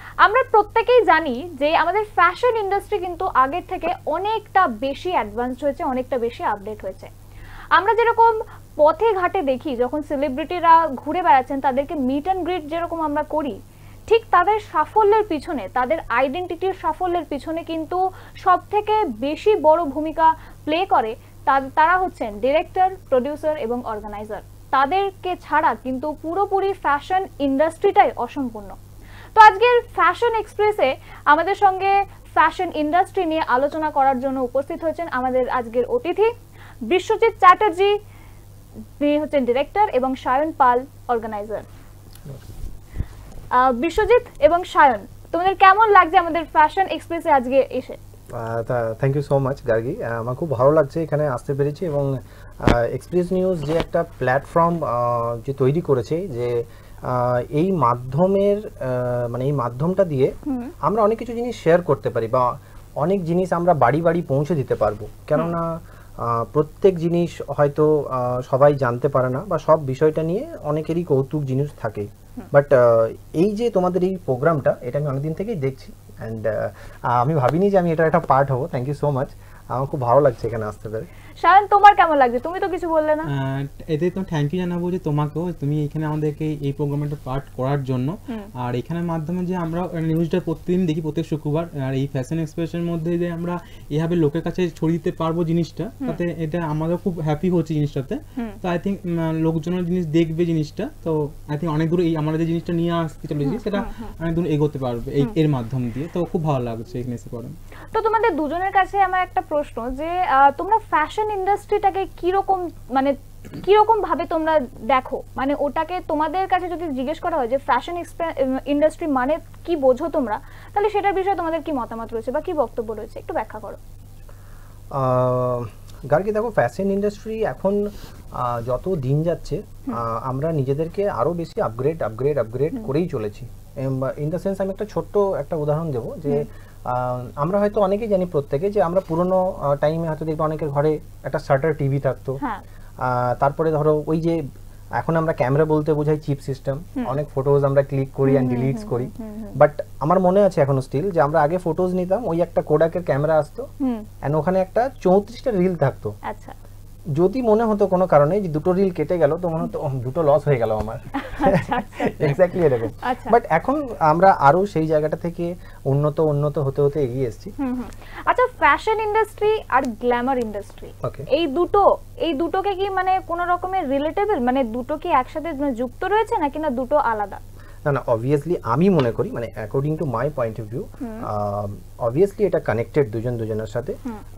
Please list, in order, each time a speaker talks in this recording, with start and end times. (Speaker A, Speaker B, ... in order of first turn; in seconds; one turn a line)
Speaker A: 0.2-7.1
Speaker A: 7.8-28.8
Speaker A: 29.4-36.3
Speaker A: 36.9-38.0
Speaker A: 39.0-41.6
Speaker A: 43.5-48.0
Speaker B: 48.3-81.1
Speaker A: 60.5-60.7
Speaker A: 81.4-83.3
Speaker C: 83.3-107.6
Speaker A: 103.4-104.1
Speaker A: 108.0-123.8
Speaker B: 124.9-142.4
Speaker B: 143.0-144.4
Speaker B: 145.0-153.7
Speaker A: 148.2-149.6
Speaker A: 153.8-154.1
Speaker B: 154.2-156.1
Speaker A: 156.3-156.5
Speaker B: 157.2-167.5
Speaker A: 161.2-163.4
Speaker A: 167.6-177.4
Speaker B: 171.0-171.3
Speaker B: 177.8-184.0
Speaker A: 181.0-181.3